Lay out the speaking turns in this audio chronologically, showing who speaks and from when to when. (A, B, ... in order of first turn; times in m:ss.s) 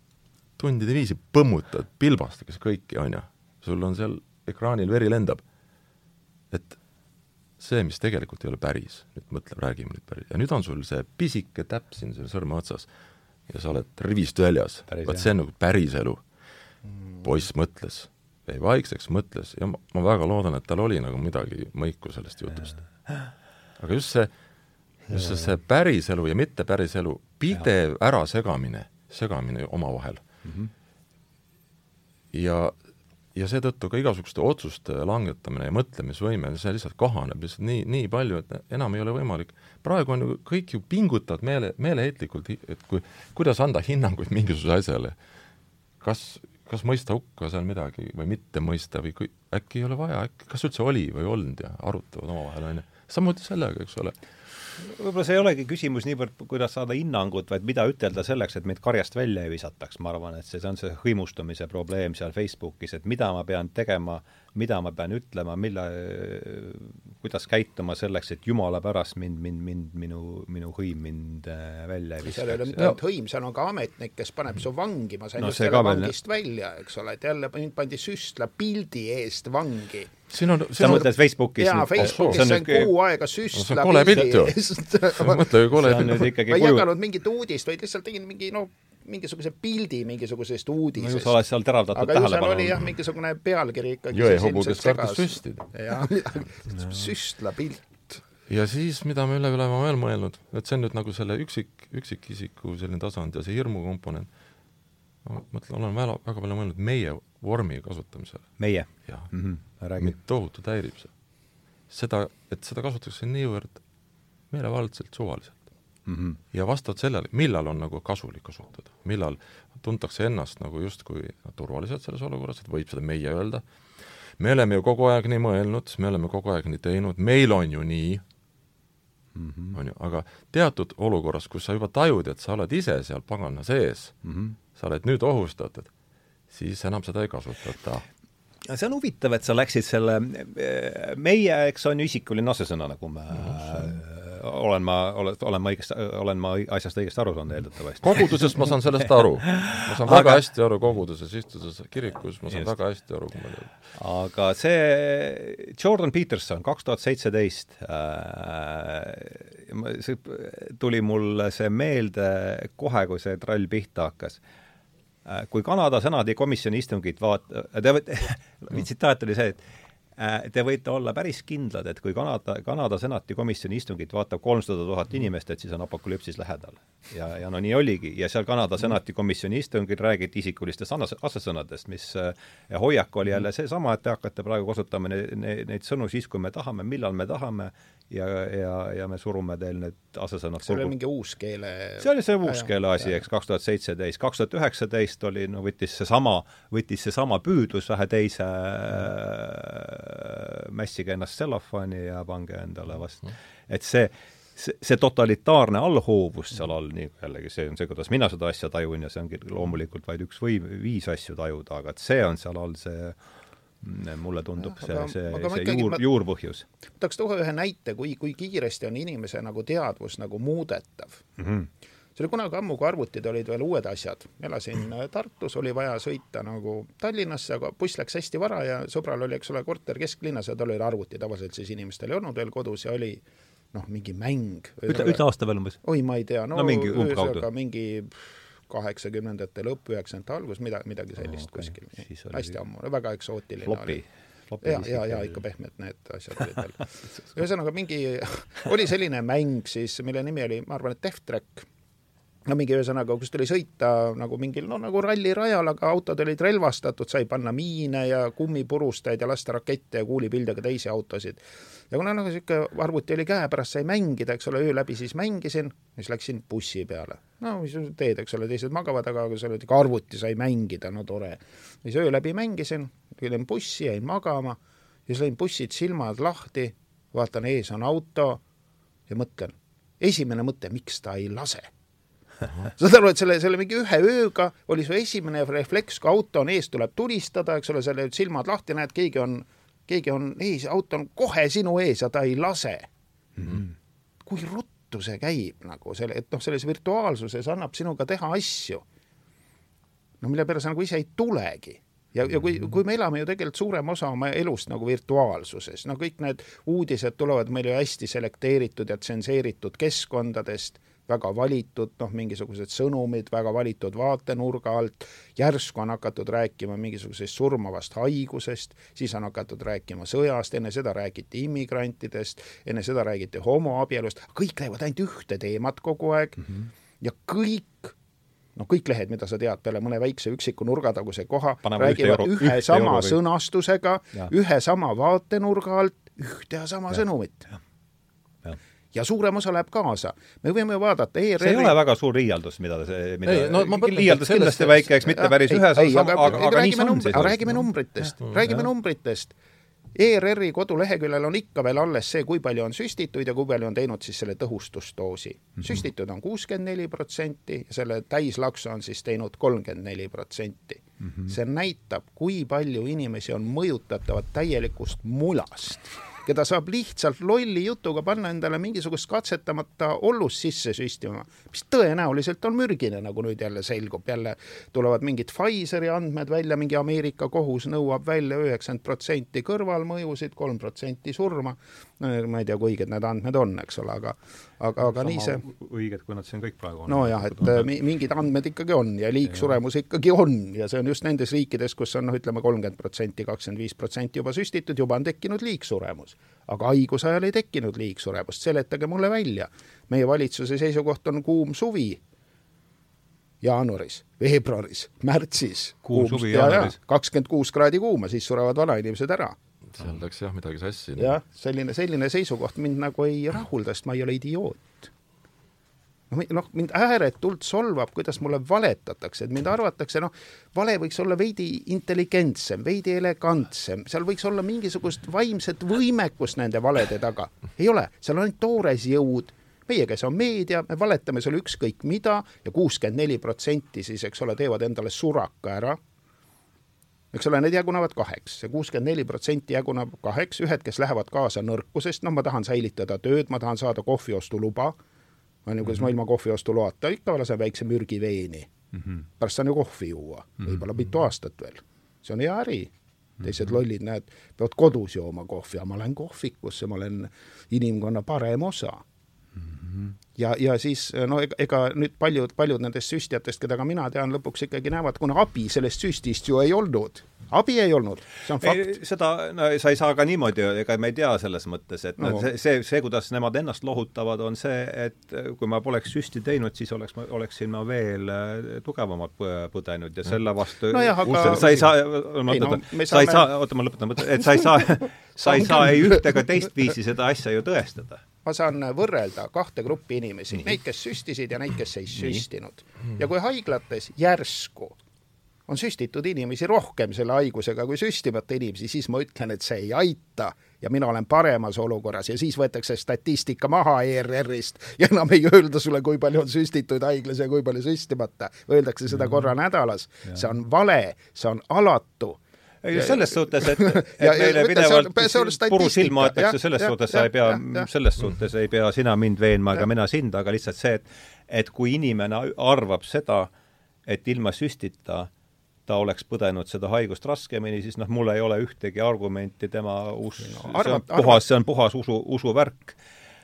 0:00.6-0:05.4 A
0:06.5-0:06.8 A
0:07.6-0:12.9 A
0:13.5-0:16.2 A
0:14.9-0:15.3 B
0:17.2-0:22.8 A
0:22.6-0:23.3 B
0:23.8-0:24.3 A
0:25.1-0:25.5 B
0:25.1-0:30.2 A
0:30.4-0:30.7 B
0:32.3-0:32.8 A
0:33.3-0:45.2 A
0:46.0-0:54.2 A
0:54.8-1:12.9 B
1:12.2-1:20.1 C
1:15.4-1:16.1 B
1:20.3-1:21.1 A
1:20.8-1:22.9 B
1:21.6-1:25.6 C
1:22.0-1:22.5 A
1:23.5-1:24.6 A
1:25.1-1:26.3 A
1:25.7-1:26.9 B
1:26.2-1:31.3 C
1:31.0-1:32.9 B
1:31.9-1:38.2 C
1:34.1-1:35.7 A
1:36.7-1:37.1 B
1:38.5-1:44.3 A
1:45.2-1:48.5 A
1:48.6-1:50.1 B
1:50.0-1:51.1 A
1:51.9-1:53.8 A
1:54.5-1:55.6 A
1:56.0-1:56.4 B
1:56.5-2:03.6 A
2:04.4-2:08.2 A
2:09.3-2:09.8 B
2:09.7-2:14.2 A
2:14.2-2:14.6 B
2:14.7-2:15.9 A
2:16.5-2:18.0 A
2:18.6-2:28.8 B
2:28.0-2:33.7 A
2:29.4-2:30.4 B
2:33.9-2:44.4 B
2:45.2-2:49.6 B
2:50.2-3:10.9 B
3:10.6-3:13.1 C
3:12.0-3:33.2 B
3:33.8-3:36.6 B
3:34.6-3:36.0 C
3:37.0-3:41.2 C
3:41.4-3:41.7 B
3:42.2-3:53.2 C
3:53.7-3:55.2 C
3:54.9-3:55.8 B
3:55.8-4:04.0 C
3:56.5-3:57.4 B
4:01.2-4:02.6 B
4:03.6-4:05.4 B
4:04.6-4:11.7 C
4:12.4-4:38.4 C
4:39.1-4:41.7 C
4:42.8-4:52.9 C
4:53.4-4:53.7 B
4:54.2-4:58.8 C
5:00.2-5:27.9 C
5:28.6-5:37.5 C
5:31.6-5:33.2 B
5:38.9-5:41.8 C
5:41.4-5:47.7 B
5:43.2-5:44.9 A
5:45.1-5:49.3 C
5:48.4-5:48.7 B
5:49.9-6:25.4 C
6:01.0-6:01.3 B
6:24.8-6:27.7 B
6:26.9-6:42.0 C
6:43.4-6:49.3 C
6:45.8-6:46.8 B
6:49.7-6:51.2 A
6:51.0-6:54.9 C
6:56.1-7:15.8 C
7:17.1-7:24.8 C
7:25.4-7:28.5 C
7:28.8-7:29.0 B
7:29.2-7:38.8 C
7:39.4-7:39.9 B
7:40.2-7:48.7 C
7:48.4-8:08.0 B
7:52.0-7:52.3 C
8:00.7-8:03.3 C
8:05.2-8:06.2 C
8:08.2-8:14.8 C
8:15.5-8:32.2 C
8:29.0-8:29.3 B
8:32.6-8:43.3 B
8:32.7-8:37.7 C
8:43.8-8:45.1 B
8:45.7-8:52.8 B
8:50.2-8:51.2 C